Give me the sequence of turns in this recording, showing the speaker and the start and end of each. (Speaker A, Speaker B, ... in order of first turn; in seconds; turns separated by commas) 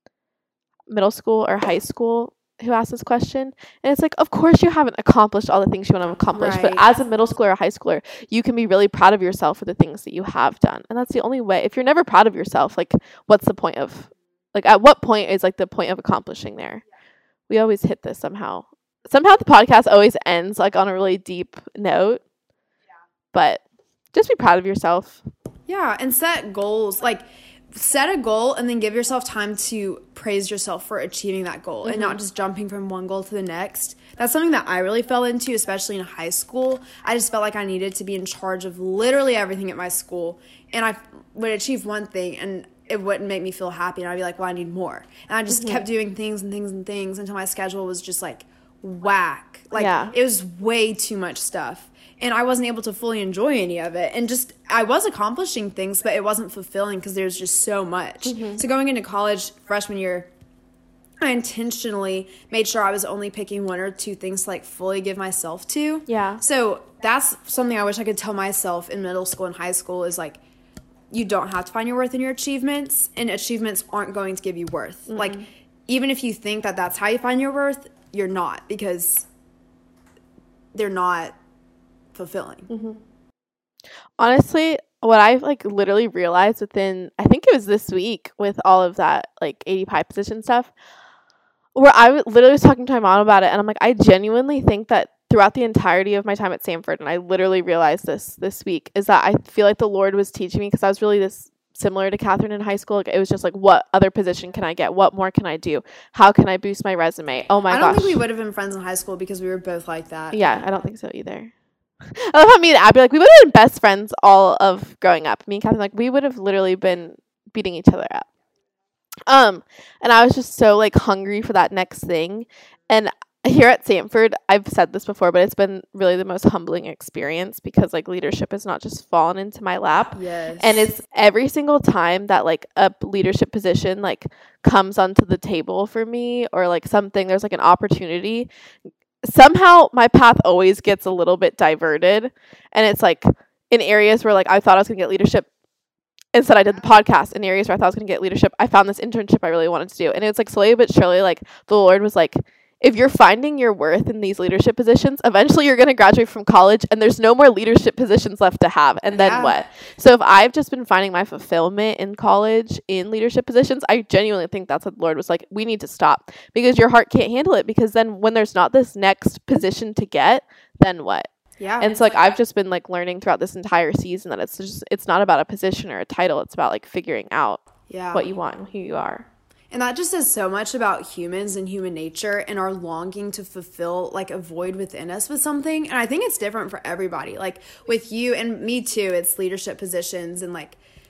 Speaker A: 0.9-16.8, Speaker B: 6.3-6.9, Speaker A: 17.5-22.2, Speaker A: 23.3-25.2, Speaker B: 25.7-60.3, Speaker A: 31.8-32.2, Speaker A: 45.5-45.9, Speaker A: 49.8-50.1, Speaker A: 58.2-58.6, Speaker B: 61.2-70.4, Speaker A: 66.1-66.4, Speaker B: 71.1-79.3, Speaker A: 75.1-75.5, Speaker B: 80.7-81.3, Speaker B: 82.1-82.7, Speaker A: 82.7-83.0, Speaker A: 84.2-90.7, Speaker A: 91.8-108.2, Speaker B: 107.7-110.4, Speaker A: 110.3-111.5, Speaker A: 112.1-118.3, Speaker A: 119.3-138.5, Speaker B: 130.2-130.9, Speaker A: 139.2-145.5, Speaker A: 146.3-179.3, Speaker B: 159.1-159.6, Speaker B: 171.6-172.0, Speaker B: 177.9-178.3, Speaker B: 179.7-190.8